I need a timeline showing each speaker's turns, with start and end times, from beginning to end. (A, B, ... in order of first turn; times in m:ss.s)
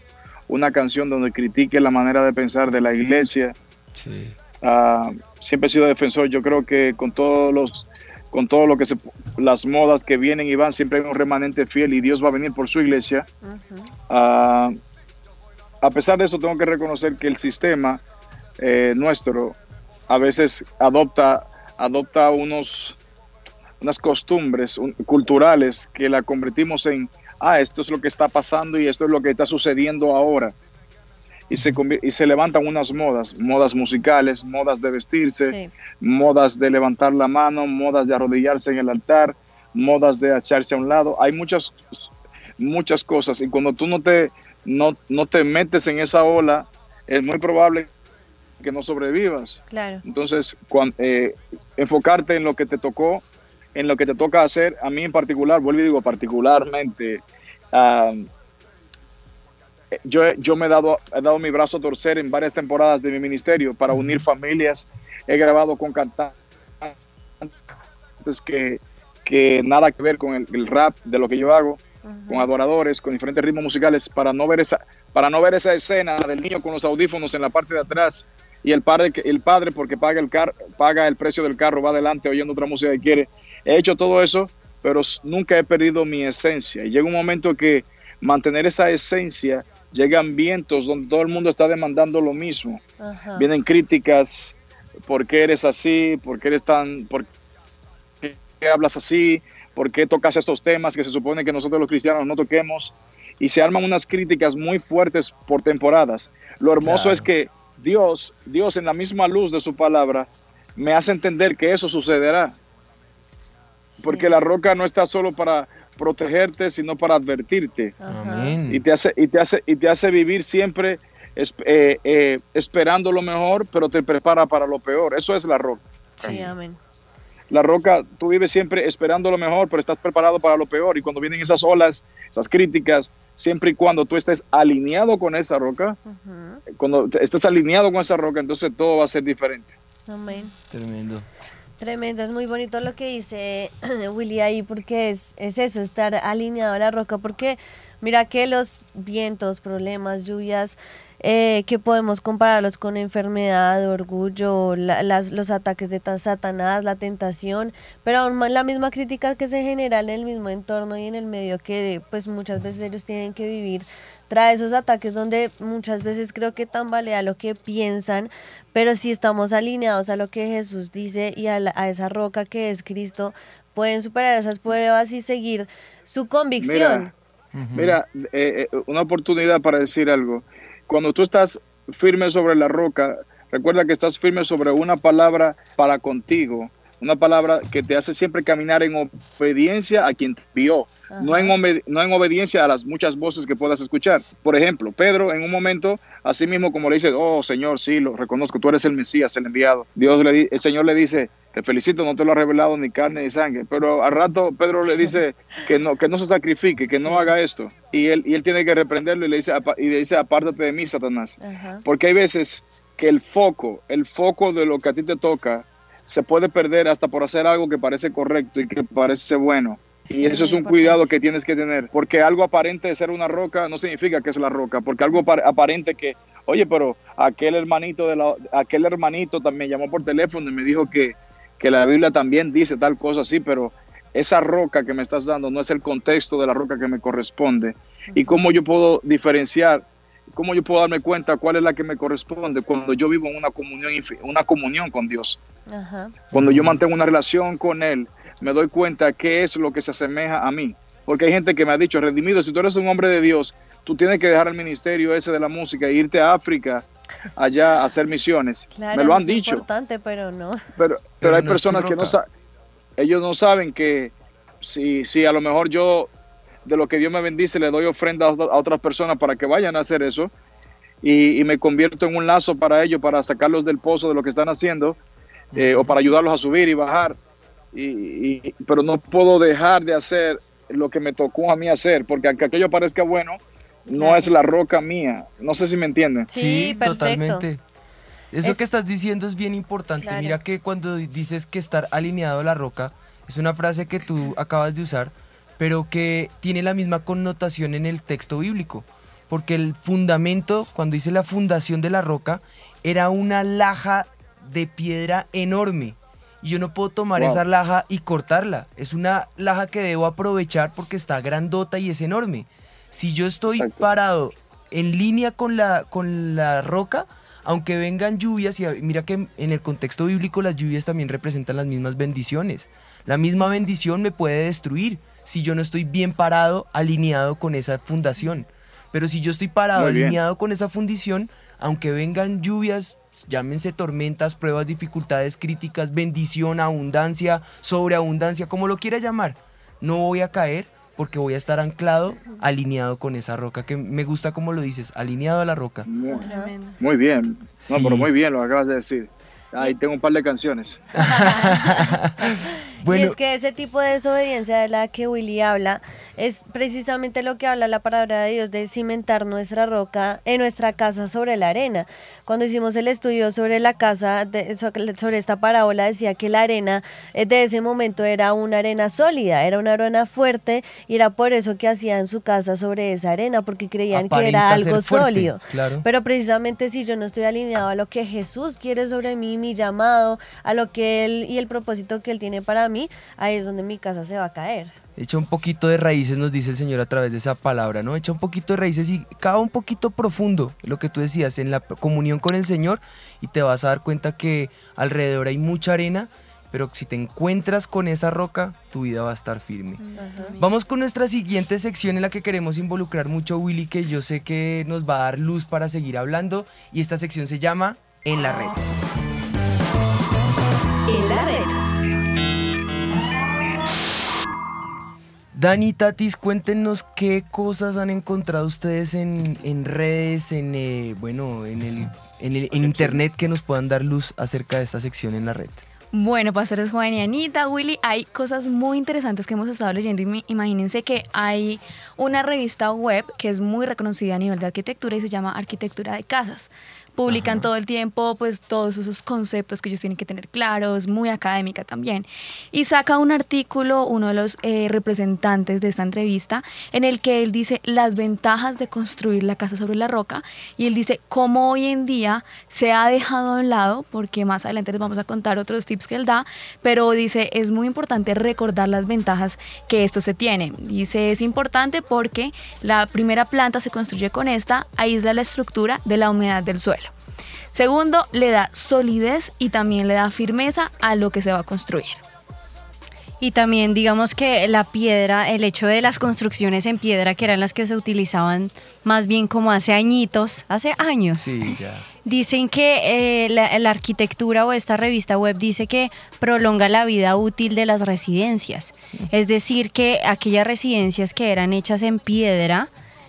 0:00.5-0:03.6 A
0:04.0-0:04.4 B
0:04.6-0:13.3 A
0:13.4-0:13.9 C
0:14.1-0:14.8 A
0:15.8-0:18.0 A
0:18.6-0:19.6 A
0:20.1-0:23.0 A
0:23.8-0:30.5 A
0:31.5-0:47.9 A
0:31.5-0:31.8 B
0:35.4-0:35.7 C
0:48.6-0:58.3 A
0:49.7-0:50.0 C
1:00.0-1:07.5 A
1:03.9-1:04.2 B
1:08.2-1:32.8 A
1:12.0-1:12.5 C
1:33.0-1:33.5 C
1:33.4-1:34.5 A
1:35.1-1:37.3 A
1:38.2-1:52.6 A
1:46.8-1:47.3 B
1:54.0-1:54.3 C
1:54.0-1:58.0 A
1:58.0-1:58.6 C
1:58.1-1:58.8 B
1:58.7-2:05.8 A
2:06.2-2:06.8 C
2:06.2-2:06.5 B
2:07.5-2:16.0 A
2:16.0-2:16.6 C
2:16.8-2:19.7 A
2:20.1-2:20.5 C
2:20.7-2:21.2 B
2:21.8-2:57.1 C
2:56.6-2:57.1 A
2:57.5-2:58.0 B
2:57.7-4:05.4 A
3:11.1-3:11.5 C
3:26.9-3:27.3 C
3:31.4-3:31.8 C
3:40.1-3:41.1 C
3:58.1-3:58.4 C
4:05.7-4:06.2 C
4:06.3-4:06.8 B
4:06.3-4:19.6 A
4:18.7-4:20.6 C
4:20.8-4:22.3 A
4:21.2-4:22.2 B
4:23.0-4:26.1 A
4:26.6-4:30.3 A
4:31.0-4:35.0 A
4:35.5-4:35.9 B
4:35.6-4:37.2 A
4:37.7-4:46.3 A
4:44.0-4:44.3 C
4:46.3-4:47.4 C
4:46.3-4:47.6 B
4:48.3-5:45.9 B
4:48.4-4:48.7 C
4:50.0-4:50.4 C
5:07.2-5:07.4 A
5:13.5-5:13.8 A
5:29.8-5:30.2 A
5:45.8-5:51.0 A
5:46.1-5:46.5 C
5:46.2-5:46.8 D
5:47.6-5:48.1 B
5:51.0-5:53.2 B
5:51.0-6:24.7 C
6:13.9-6:15.8 B
6:25.0-6:39.8 B
6:39.8-6:40.4 D
6:40.0-6:40.3 C
6:40.4-6:48.6 B
6:50.9-6:51.5 C
6:55.3-7:05.6 B
7:02.6-7:03.0 A
7:05.9-7:46.9 E
7:17.1-7:17.5 B
7:47.5-7:52.0 E
7:53.2-8:12.7 D
8:01.2-8:01.8 B